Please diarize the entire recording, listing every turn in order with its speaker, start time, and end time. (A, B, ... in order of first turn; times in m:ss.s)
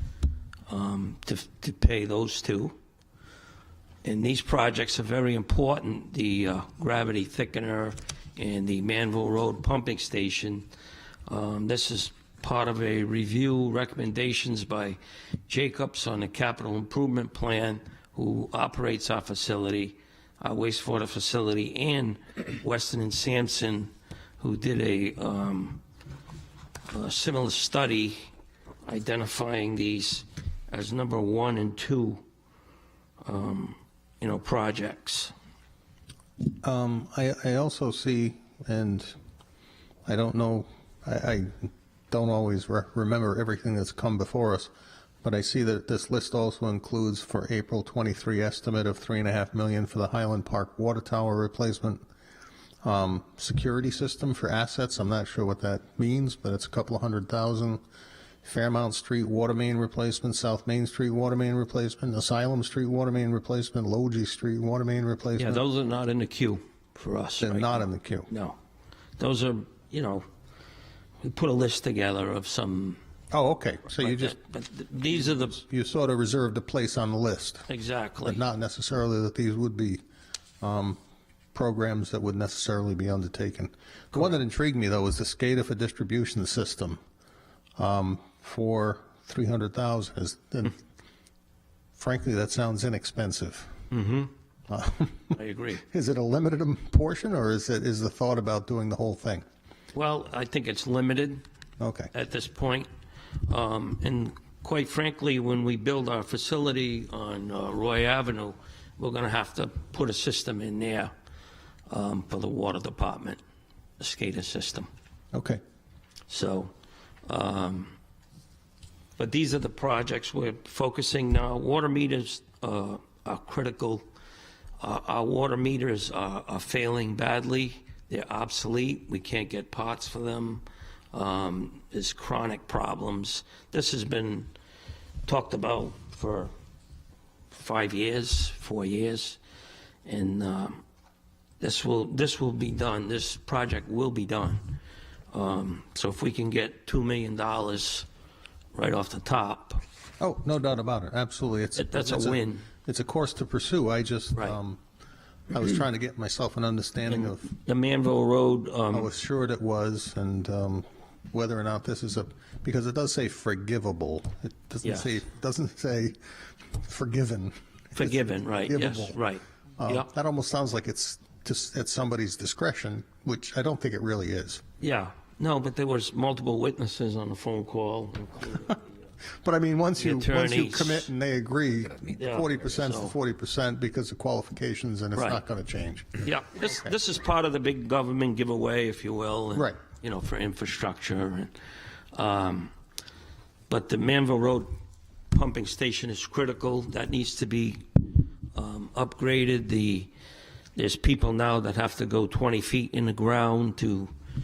0:00.7-0:02.7 A
0:04.0-0:10.7 A
0:11.3-0:25.8 A
0:26.9-0:28.2 A
0:28.8-0:32.2 A
0:33.2-0:35.3 A
0:36.6-0:39.1 B
0:40.0-0:44.7 B
0:45.2-0:52.0 B
0:52.8-0:57.8 B
0:58.4-1:05.6 B
1:05.4-1:08.6 A
1:07.4-1:08.3 B
1:09.2-1:10.3 A
1:11.2-1:13.0 A
1:13.3-1:14.4 B
1:14.0-1:15.6 A
1:15.6-1:17.6 B
1:17.7-1:18.4 A
1:18.2-1:20.0 B
1:20.6-1:21.0 B
1:21.5-1:27.0 B
1:27.8-1:30.8 B
1:32.0-1:33.7 B
1:33.9-1:34.3 A
1:34.7-1:39.4 B
1:35.3-1:35.8 A
1:39.9-1:41.4 A
1:41.8-1:42.1 B
1:42.1-1:42.9 A
1:43.5-1:51.1 A
1:51.9-1:53.4 A
1:54.0-1:54.9 A
1:55.3-1:55.6 B
1:56.3-1:56.7 A
1:57.2-1:57.9 A
1:59.2-2:04.0 A
2:04.8-2:14.5 A
2:15.2-2:16.5 A
2:17.5-2:19.4 A
2:20.0-2:20.8 A
2:21.6-2:24.8 A
2:25.3-2:28.1 A
2:28.7-2:29.8 A
2:30.2-2:34.8 B
2:31.8-2:32.7 A
2:35.5-2:37.5 B
2:37.1-2:39.1 A
2:38.9-2:46.2 B
2:44.8-2:45.2 A
2:46.8-2:49.2 B
2:48.0-2:50.1 A
2:49.8-2:54.6 B
2:54.8-2:58.7 A
2:59.4-3:06.9 B
3:00.0-3:01.1 A
3:02.2-3:03.1 A
3:05.2-3:05.4 A
3:06.2-3:11.5 A
3:12.1-3:12.7 A
3:13.7-3:14.7 A
3:15.3-3:18.0 A
3:18.5-3:20.1 A
3:20.8-3:24.1 A